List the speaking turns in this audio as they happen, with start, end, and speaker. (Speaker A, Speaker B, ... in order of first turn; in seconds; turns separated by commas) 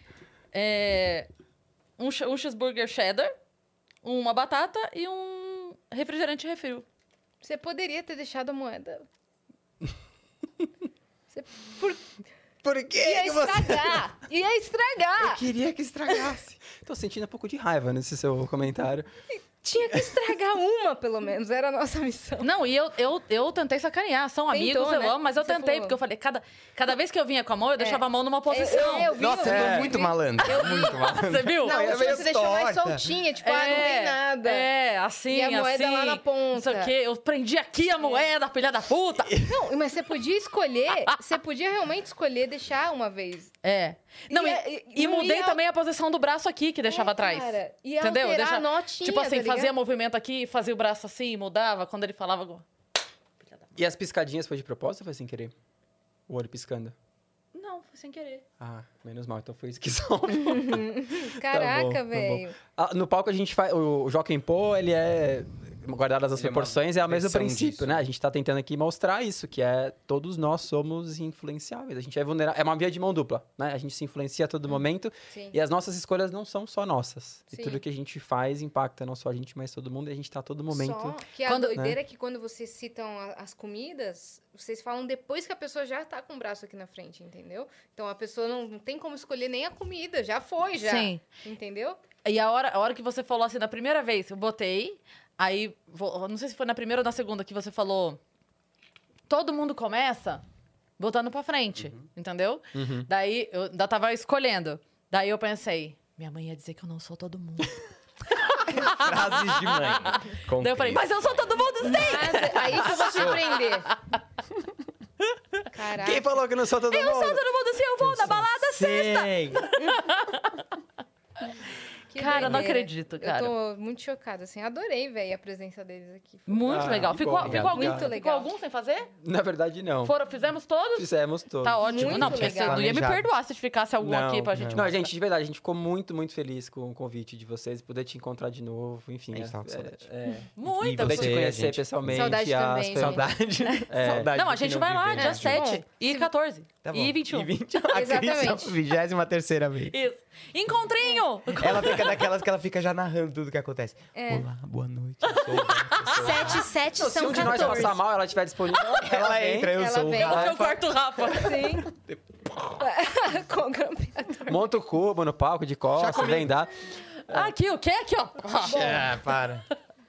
Speaker A: 0.5-1.3, Speaker A: 2.0-3.4, Speaker A: 4.0-6.9, Speaker B: 7.4-9.1, Speaker B: 11.3-12.1, Speaker C: 12.6-14.1, Speaker B: 13.0-15.4, Speaker D: 15.2-16.6, Speaker B: 16.1-16.4, Speaker C: 16.7-19.1, Speaker B: 19.3-22.5, Speaker C: 19.9-20.2, Speaker A: 22.4-29.2, Speaker B: 24.5-26.0, Speaker B: 27.8-31.0, Speaker D: 29.1-33.1, Speaker C: 29.4-30.0, Speaker A: 30.4-31.8, Speaker B: 31.6-34.7, Speaker A: 33.4-39.4, Speaker B: 35.3-36.9, Speaker B: 38.0-38.3, Speaker C: 39.3-39.6, Speaker B: 39.4-43.5, Speaker A: 43.6-52.6, Speaker B: 44.3-45.6, Speaker B: 46.9-49.7, Speaker A: 53.4-53.7, Speaker C: 53.8-55.5, Speaker C: 56.3-57.0, Speaker A: 57.5-58.5, Speaker C: 58.6-81.2, Speaker B: 60.4-62.5, Speaker D: 66.3-68.0, Speaker B: 75.3-75.6, Speaker B: 77.5-77.8, Speaker B: 80.7-92.0, Speaker A: 81.5-81.8, Speaker A: 90.8-91.2, Speaker A: 92.2-98.2, Speaker A: 99.3-100.4, Speaker A: 101.0-114.2, Speaker C: 102.8-103.1, Speaker D: 108.7-111.4, Speaker B: 111.8-113.9, Speaker D: 112.9-113.4, Speaker B: 115.7-116.3, Speaker C: 115.9-117.4, Speaker A: 116.9-120.7, Speaker D: 118.0-119.7, Speaker B: 122.1-127.1, Speaker A: 122.2-123.5, Speaker A: 126.5-129.1, Speaker C: 126.7-128.1, Speaker D: 127.4-127.8, Speaker B: 127.6-128.5, Speaker C: 129.2-130.1, Speaker A: 130.0-135.0, Speaker C: 131.0-132.4, Speaker B: 131.8-132.9, Speaker D: 132.1-133.3, Speaker C: 134.0-143.3, Speaker D: 134.5-134.9, Speaker D: 139.3-140.1, Speaker A: 140.5-141.4, Speaker D: 140.7-145.8, Speaker B: 142.1-143.3, Speaker A: 143.7-147.5, Speaker C: 143.9-144.3, Speaker B: 145.2-146.3, Speaker D: 146.8-149.9, Speaker B: 147.9-148.8, Speaker A: 149.9-152.0, Speaker D: 151.6-156.7, Speaker C: 151.6-152.1, Speaker B: 154.2-154.5, Speaker A: 155.3-156.3, Speaker B: 156.1-158.0, Speaker C: 156.9-159.7, Speaker A: 157.3-157.9, Speaker D: 159.0-162.8, Speaker B: 159.7-160.7, Speaker A: 160.2-161.7, Speaker B: 161.4-161.9, Speaker B: 162.8-164.6, Speaker C: 164.5-167.5, Speaker D: 165.9-166.5, Speaker A: 167.2-169.0, Speaker B: 168.6-169.2, Speaker D: 168.6-169.7